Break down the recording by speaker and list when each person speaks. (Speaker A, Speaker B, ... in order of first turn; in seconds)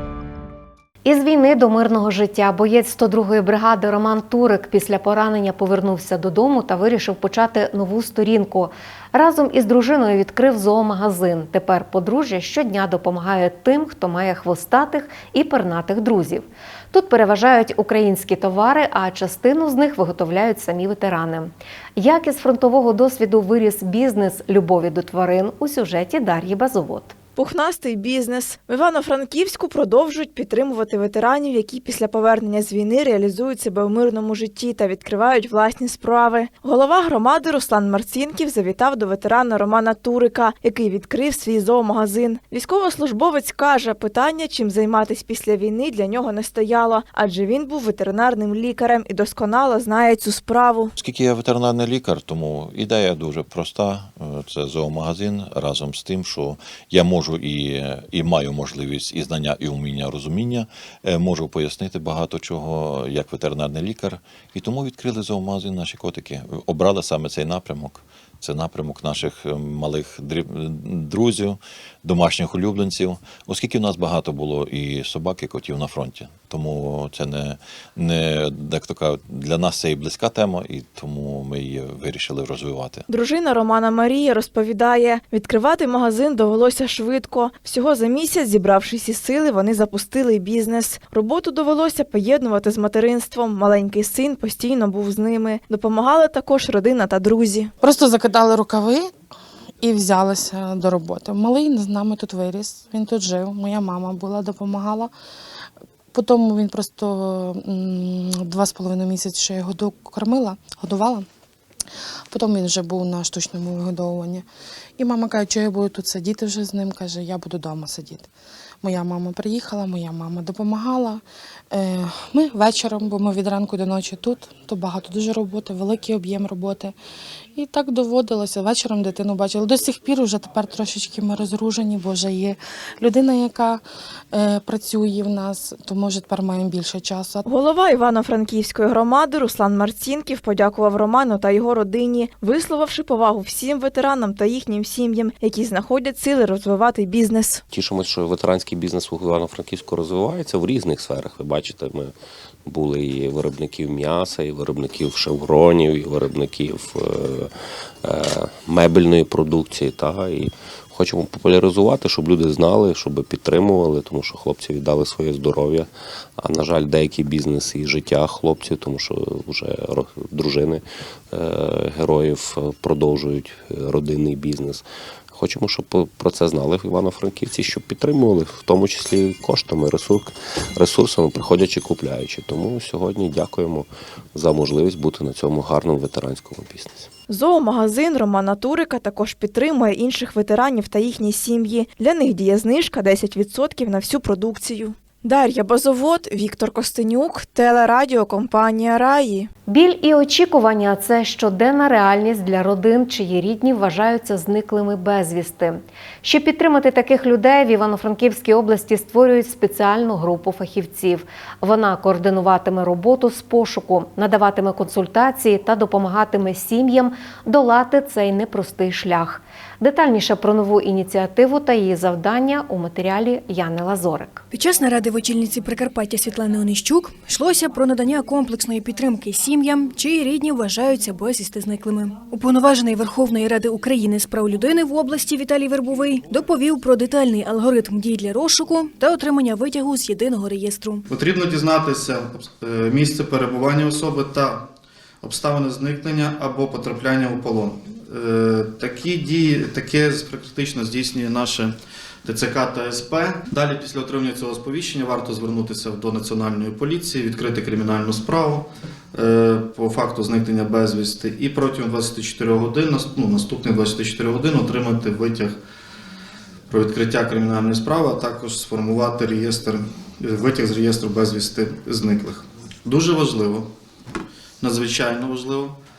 Speaker A: 1.0-27.1, 199.7-224.4
Speaker B: 27.4-50.9, 83.1-97.7, 137.4-147.6, 187.3-199.5
Speaker C: 51.0-83.0
Speaker D: 97.8-99.1, 99.8-105.1, 106.1-111.2, 112.3-114.4, 115.0-118.3, 118.8-126.9, 127.5-137.5
Speaker E: 147.7-152.1, 152.6-187.1
Speaker F: 224.5-241.0
Speaker G: 241.1-244.6, 245.2-251.7, 252.2-265.6, 266.7-273.7, 274.6-275.7